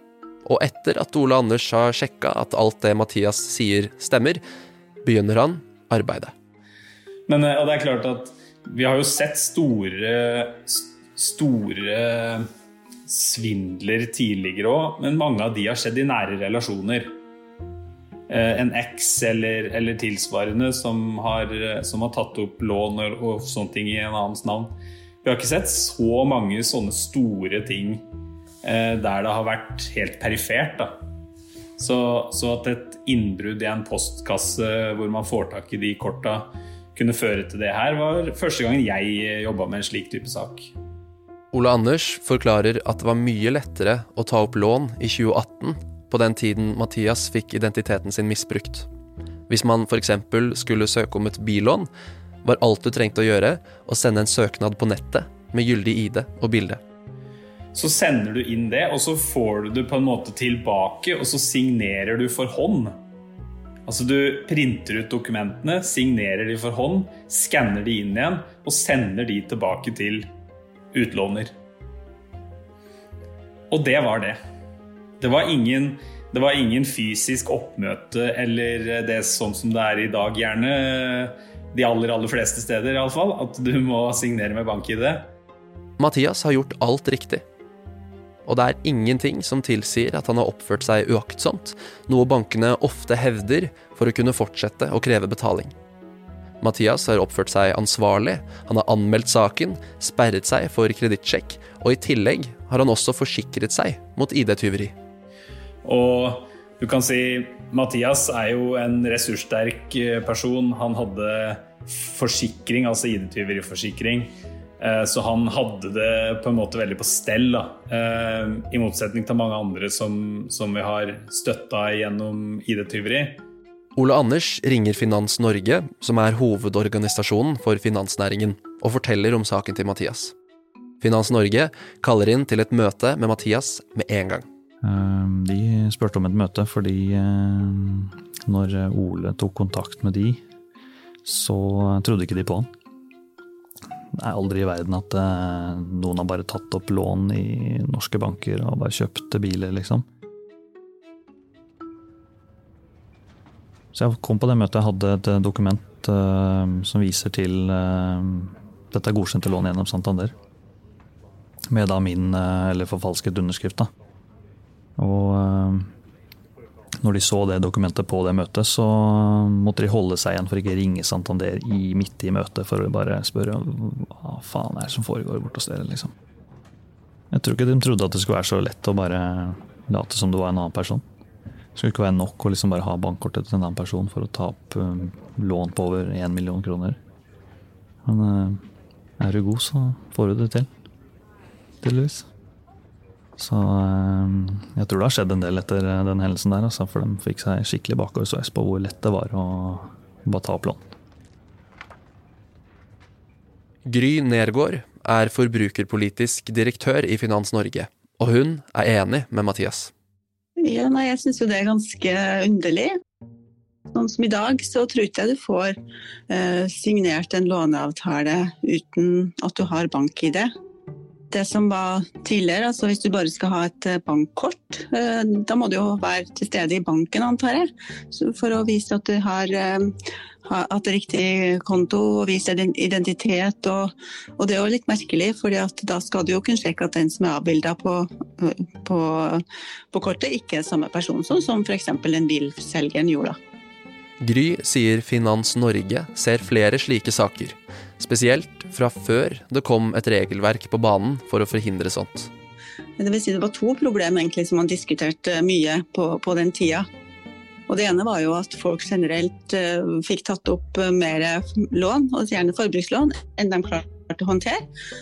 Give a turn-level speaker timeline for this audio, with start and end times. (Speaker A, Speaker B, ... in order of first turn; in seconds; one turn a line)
Speaker A: 0.5-4.4
Speaker A: 5.0-6.3
Speaker B: 7.3-12.4
Speaker B: 13.1-17.2
Speaker B: 18.3-28.0
Speaker B: 28.6-30.9
Speaker B: 31.8-40.7
Speaker A: 41.5-48.9
Speaker A: 49.5-51.9
Speaker A: 52.4-56.8
Speaker B: 57.8-63.0
Speaker B: 63.9-70.3
Speaker B: 70.9-71.5
Speaker B: 73.7-74.4
Speaker B: 75.2-85.3
Speaker A: 86.0-87.4
Speaker A: 88.5-95.7
Speaker A: 96.6-105.0
Speaker B: 105.8-123.4
Speaker A: 124.0-130.3
Speaker A: 131.0-134.5
Speaker C: 134.8-140.4
Speaker C: 141.2-142.7
Speaker C: 144.1-150.1
Speaker C: 153.9-160.3
Speaker C: 161.7-163.9
Speaker C: 165.0-165.9
Speaker C: 167.0-176.1
Speaker C: 177.3-181.0
Speaker C: 181.8-187.0
Speaker C: 188.1-188.6
Speaker C: 189.2-190.7
Speaker C: 191.8-192.3
Speaker C: 193.4-200.9
Speaker A: 203.9-209.9
Speaker D: 210.6-213.0
Speaker D: 213.9-220.5
Speaker D: 221.3-243.4
Speaker A: 244.2-252.3
Speaker D: 253.0-256.9
Speaker D: 257.7-264.7